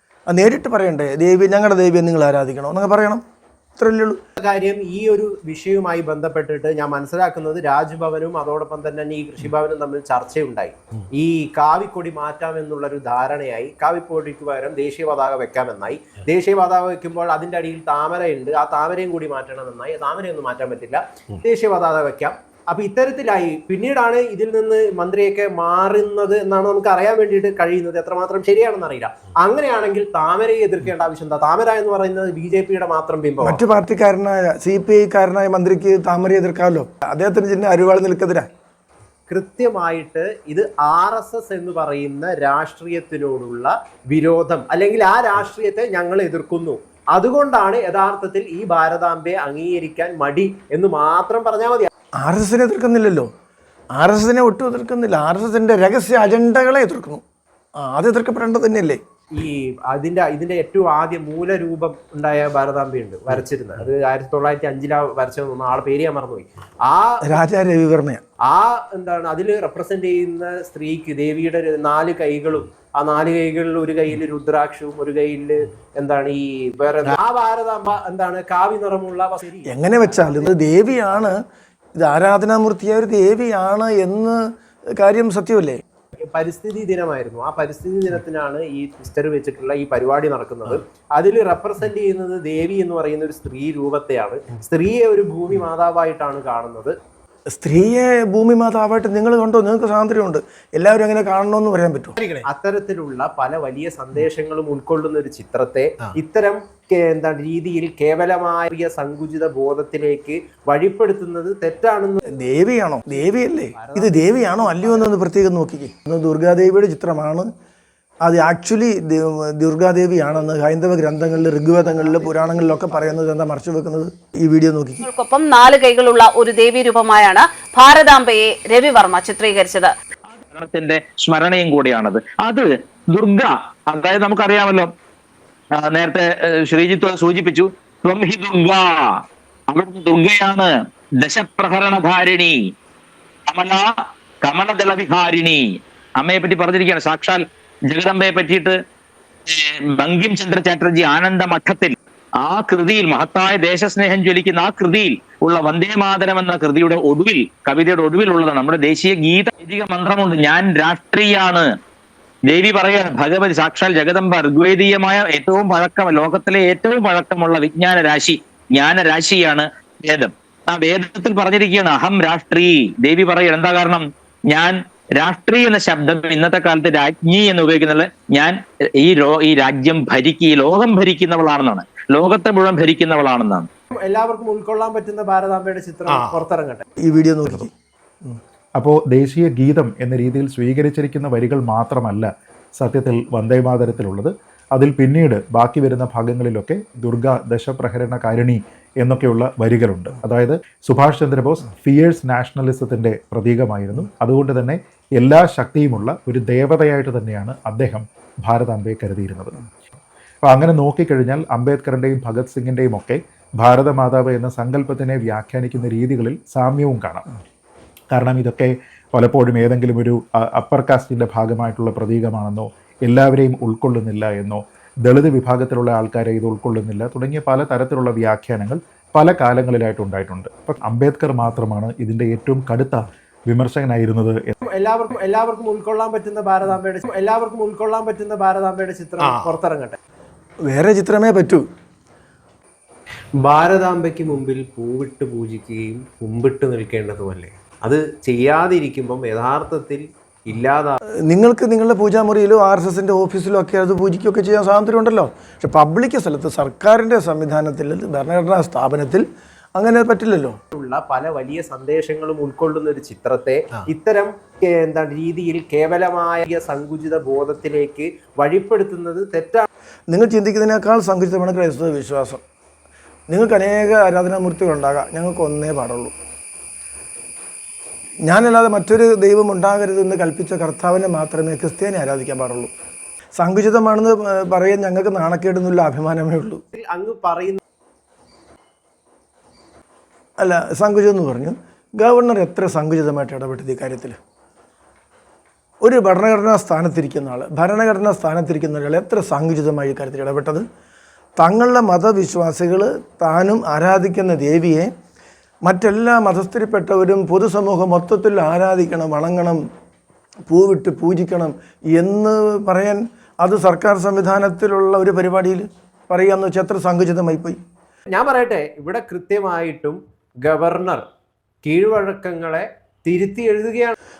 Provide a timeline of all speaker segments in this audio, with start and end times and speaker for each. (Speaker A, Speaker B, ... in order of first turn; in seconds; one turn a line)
Speaker A: 0.3-3.2
Speaker A: 3.8-4.2
Speaker B: 4.4-33.6
Speaker A: 33.4-38.5
Speaker B: 39.3-51.9
Speaker A: 52.2-53.3
Speaker A: 54.0-57.2
Speaker A: 57.8-59.0
Speaker B: 59.3-67.2
Speaker A: 67.2-68.2
Speaker B: 68.5-81.3
Speaker A: 79.7-81.4
Speaker A: 82.0-84.4
Speaker A: 85.0-85.8
Speaker B: 86.3-96.9
Speaker A: 97.5-102.2
Speaker B: 102.4-112.2
Speaker A: 112.3-117.5
Speaker B: 113.2-115.2
Speaker A: 118.2-125.0
Speaker B: 121.9-123.1
Speaker C: 125.0-129.9
Speaker D: 130.3-134.9
Speaker D: 135.9-138.8
Speaker D: 139.7-140.7
Speaker D: 141.2-142.6
Speaker D: 143.5-143.8
Speaker D: 144.4-145.6
Speaker D: 146.2-148.7
Speaker D: 149.5-161.7
Speaker D: 162.5-183.7
Speaker B: 183.9-186.8
Speaker A: 187.0-187.7
Speaker E: 188.8-209.6
Speaker E: 210.4-217.2
Speaker E: 218.1-234.6
Speaker B: 234.6-240.0
Speaker A: 240.7-241.6
Speaker B: 243.4-251.0
Speaker A: 251.3-259.2
Speaker A: 259.8-260.5
Speaker B: 260.7-269.6
Speaker A: 270.1-272.4
Speaker A: 273.3-276.1
Speaker A: 278.3-282.7
Speaker A: 283.4-286.6
Speaker B: 286.7-287.6
Speaker A: 290.4-294.1
Speaker A: 295.8-300.6
Speaker A: 301.4-304.9
Speaker A: 305.6-309.6
Speaker A: 310.5-317.6
Speaker B: 318.1-321.0
Speaker B: 321.6-323.9